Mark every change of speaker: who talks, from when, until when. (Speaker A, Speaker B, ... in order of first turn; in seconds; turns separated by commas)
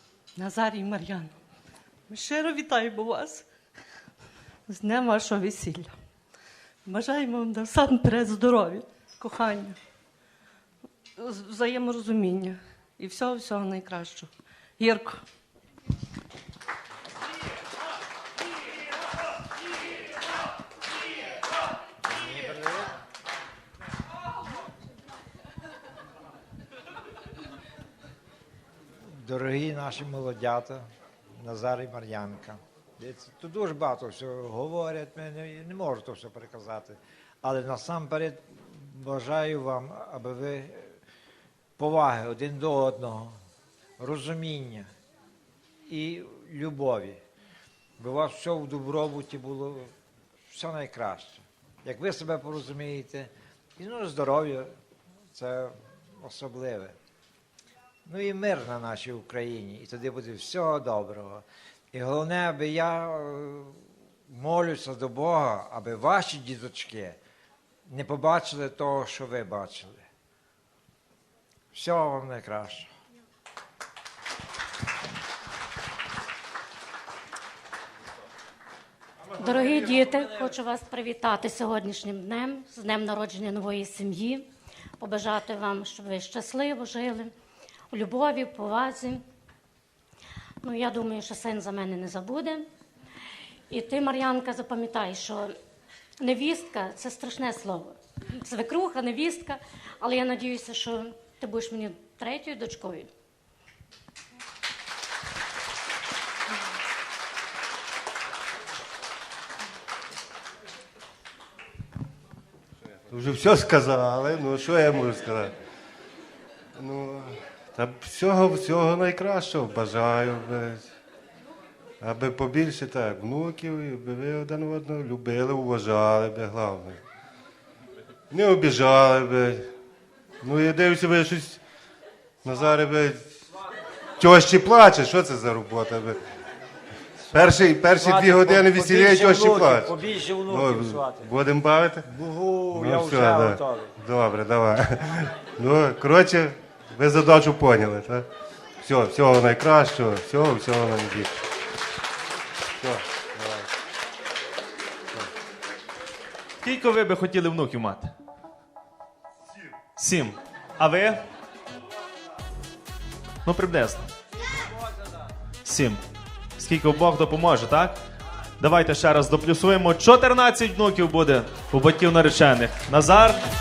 Speaker A: 0.3-1.3, Speaker A: 2.1-3.5, Speaker A: 4.7-5.9, Speaker A: 6.8-9.8, Speaker A: 11.2-15.2, Speaker B: 22.1-22.9, Speaker B: 29.1-30.8, Speaker B: 31.4-40.9, Speaker B: 41.8-43.4, Speaker B: 44.0-44.9, Speaker B: 45.9-47.2, Speaker B: 48.0-49.9, Speaker B: 50.5-54.7, Speaker B: 55.3-56.9, Speaker B: 58.0-63.8, Speaker B: 64.3-67.2, Speaker B: 67.9-70.0, Speaker B: 71.7-72.9, Speaker C: 79.3-84.5, Speaker C: 85.0-87.3, Speaker C: 87.9-89.2, Speaker C: 90.6-92.7, Speaker C: 93.7-95.5, Speaker C: 96.2-103.1, Speaker D: 113.1-115.5, Speaker D: 116.8-120.8, Speaker D: 122.0-127.0, Speaker D: 128.3-129.7, Speaker D: 130.4-131.6, Speaker D: 132.4-133.3, Speaker D: 134.2-136.2, Speaker D: 137.3-142.1, Speaker B: 137.4-141.3, Speaker B: 142.0-143.9, Speaker D: 142.7-148.2, Speaker D: 148.8-151.4, Speaker D: 152.8-153.7, Speaker E: 156.6-158.1, Speaker E: 159.9-161.2, Speaker E: 163.4-164.1, Speaker E: 165.6-166.0, Speaker E: 166.6-168.0, Speaker E: 168.6-173.4